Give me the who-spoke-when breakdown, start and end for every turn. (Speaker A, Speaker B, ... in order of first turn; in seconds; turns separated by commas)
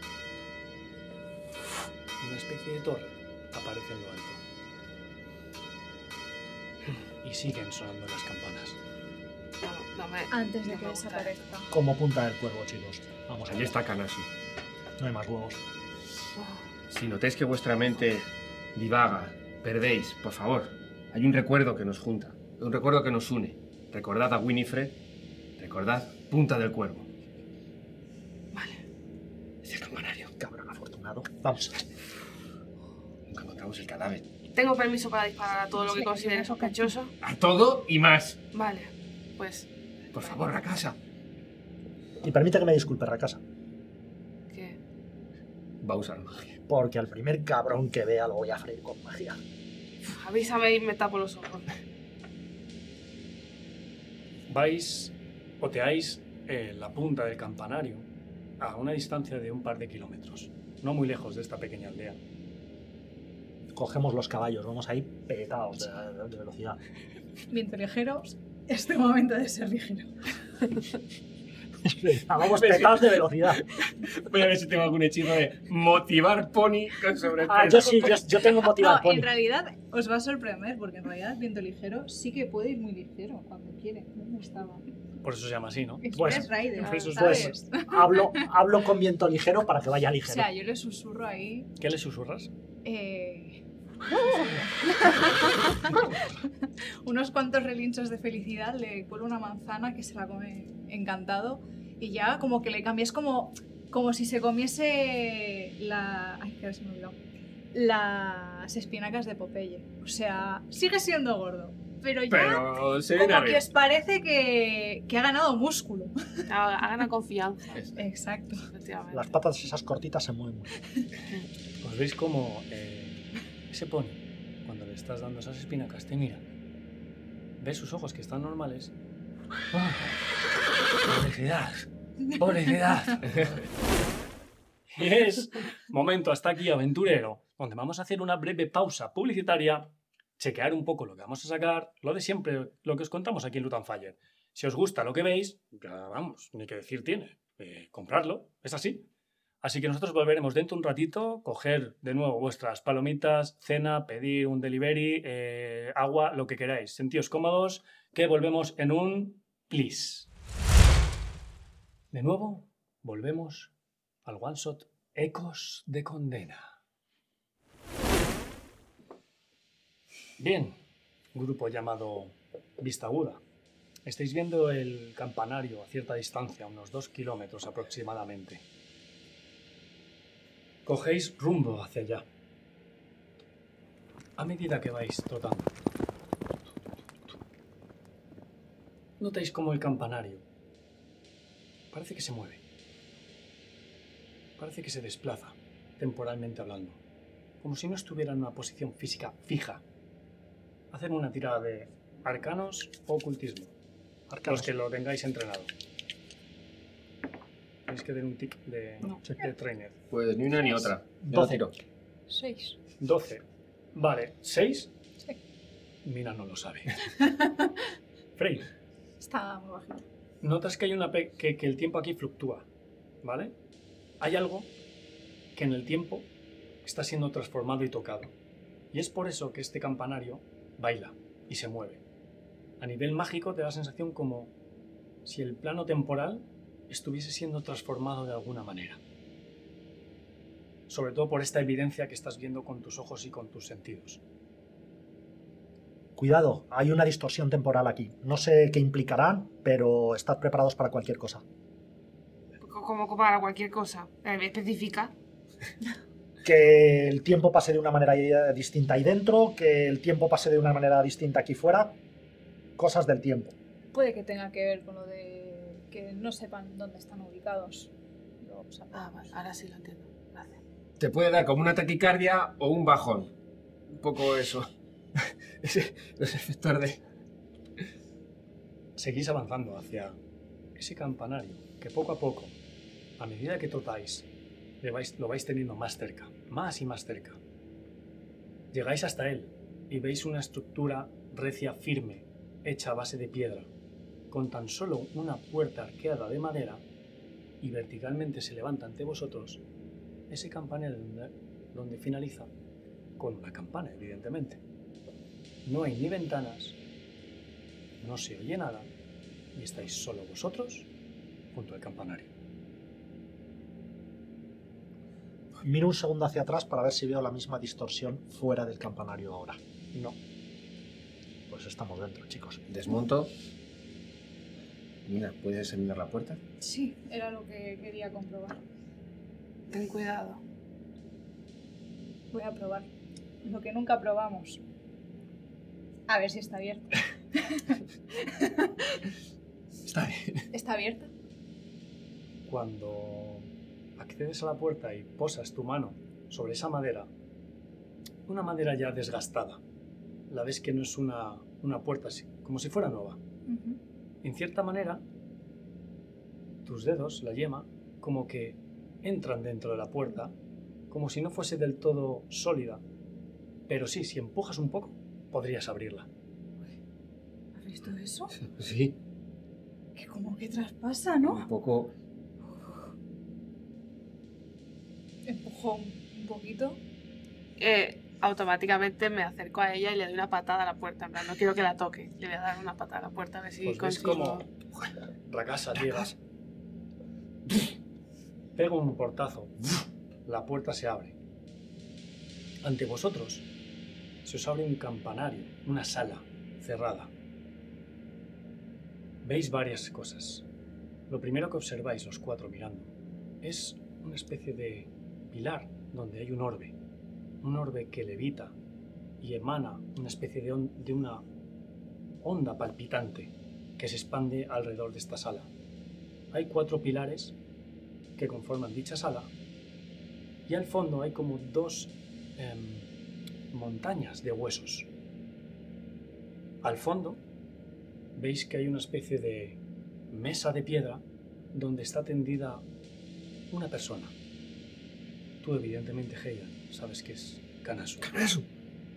Speaker A: 2.2-4.4, Speaker A: 7.2-8.8, Speaker B: 9.6-11.5, Speaker C: 10.3-11.7, Speaker D: 11.7-13.8, Speaker E: 13.5-14.3, Speaker D: 15.0-15.6, Speaker B: 16.4-16.7, Speaker E: 16.9-25.0, Speaker E: 25.6-27.1, Speaker B: 28.5-28.8, Speaker E: 29.6-30.3, Speaker D: 30.4-31.8, Speaker E: 33.3-34.2, Speaker B: 34.5-37.1, Speaker C: 35.7-36.9, Speaker E: 37.2-38.4, Speaker B: 38.5-40.4, Speaker E: 40.1-41.0, Speaker D: 42.2-43.4, Speaker B: 44.5-44.8, Speaker E: 45.8-46.6, Speaker D: 46.7-49.4, Speaker B: 50.0-51.7, Speaker A: 54.5-58.1, Speaker A: 58.6-62.2, Speaker D: 63.7-66.8, Speaker C: 67.5-70.2, Speaker D: 71.8-73.6, Speaker E: 72.5-73.0, Speaker E: 73.6-78.2, Speaker D: 77.4-79.3, Speaker C: 78.4-84.8, Speaker A: 85.2-87.5, Speaker C: 86.0-88.5, Speaker D: 86.1-86.5, Speaker D: 87.0-90.5, Speaker C: 90.2-91.7, Speaker A: 91.8-92.5, Speaker C: 92.8-107.2, Speaker C: 107.7-116.5, Speaker E: 112.3-113.7, Speaker B: 116.5-117.8, Speaker C: 117.9-118.7, Speaker B: 118.7-119.3, Speaker D: 119.1-120.7, Speaker A: 121.8-126.4, Speaker A: 127.6-128.9, Speaker F: 129.7-130.0, Speaker F: 131.0-133.3, Speaker A: 134.9-149.1, Speaker A: 149.6-160.3, Speaker A: 162.1-163.7, Speaker A: 164.2-166.7, Speaker A: 170.4-170.8, Speaker A: 171.3-173.4, Speaker A: 174.1-178.6, Speaker A: 180.8-182.2, Speaker A: 184.4-185.7, Speaker A: 189.2-190.4, Speaker A: 191.9-192.6, Speaker A: 194.6-197.0, Speaker A: 197.6-199.8, Speaker A: 200.9-203.7, Speaker D: 204.3-204.7, Speaker A: 204.4-205.7, Speaker A: 207.9-209.9, Speaker E: 210.1-211.7, Speaker D: 211.3-211.6, Speaker C: 212.3-212.8, Speaker A: 213.0-213.4, Speaker A: 213.9-214.9, Speaker A: 216.0-217.0, Speaker C: 217.0-217.8, Speaker A: 218.4-218.7, Speaker C: 219.2-220.1, Speaker A: 220.4-222.7, Speaker A: 223.2-223.5, Speaker A: 224.2-224.7, Speaker A: 225.5-226.3, Speaker A: 226.8-228.3, Speaker A: 228.9-232.0, Speaker A: 232.8-234.5, Speaker A: 235.2-239.0, Speaker A: 240.9-244.2, Speaker D: 246.2-251.4, Speaker B: 252.6-255.1, Speaker D: 256.4-262.0, Speaker D: 262.8-263.5, Speaker C: 263.9-269.4, Speaker B: 268.9-270.6, Speaker E: 271.0-273.3, Speaker E: 273.9-277.0, Speaker A: 279.0-280.2, Speaker A: 280.8-282.6, Speaker A: 283.2-284.3, Speaker A: 284.8-287.4, Speaker A: 288.7-293.7, Speaker A: 294.3-296.8, Speaker A: 297.6-299.6, Speaker A: 300.3-302.5, Speaker A: 303.2-304.6, Speaker A: 305.6-306.8, Speaker A: 308.0-308.9, Speaker A: 309.5-310.9, Speaker A: 311.5-312.3, Speaker D: 315.6-319.6, Speaker D: 321.5-322.6, Speaker E: 322.7-323.3, Speaker E: 325.0-326.4, Speaker C: 326.6-328.6, Speaker B: 329.7-330.4, Speaker C: 332.3-332.9, Speaker C: 333.4-334.6, Speaker C: 336.1-339.0, Speaker E: 339.9-340.5, Speaker C: 340.5-341.1, Speaker A: 342.5-347.1, Speaker A: 348.3-349.6, Speaker A: 350.3-353.2, Speaker C: 353.4-353.8, Speaker A: 354.2-355.0, Speaker A: 356.6-360.3, Speaker A: 360.9-362.8, Speaker A: 363.7-366.1, Speaker C: 367.5-368.4, Speaker E: 368.4-369.0, Speaker C: 369.9-371.5, Speaker E: 371.2-371.9, Speaker C: 375.2-376.8, Speaker B: 377.6-384.5, Speaker A: 383.6-384.4, Speaker A: 385.3-386.1, Speaker E: 385.8-386.1, Speaker A: 388.6-391.1, Speaker A: 392.6-393.4, Speaker A: 394.2-397.1, Speaker A: 399.2-400.4, Speaker A: 401.1-406.8, Speaker A: 407.4-408.5, Speaker A: 409.2-411.2, Speaker A: 412.2-415.5, Speaker A: 416.3-417.3, Speaker A: 418.2-419.3, Speaker A: 420.5-422.9, Speaker A: 423.5-424.9, Speaker A: 426.6-427.2, Speaker A: 428.1-429.6, Speaker A: 430.1-432.6, Speaker A: 433.5-434.1, Speaker A: 435.4-438.2, Speaker E: 438.1-438.4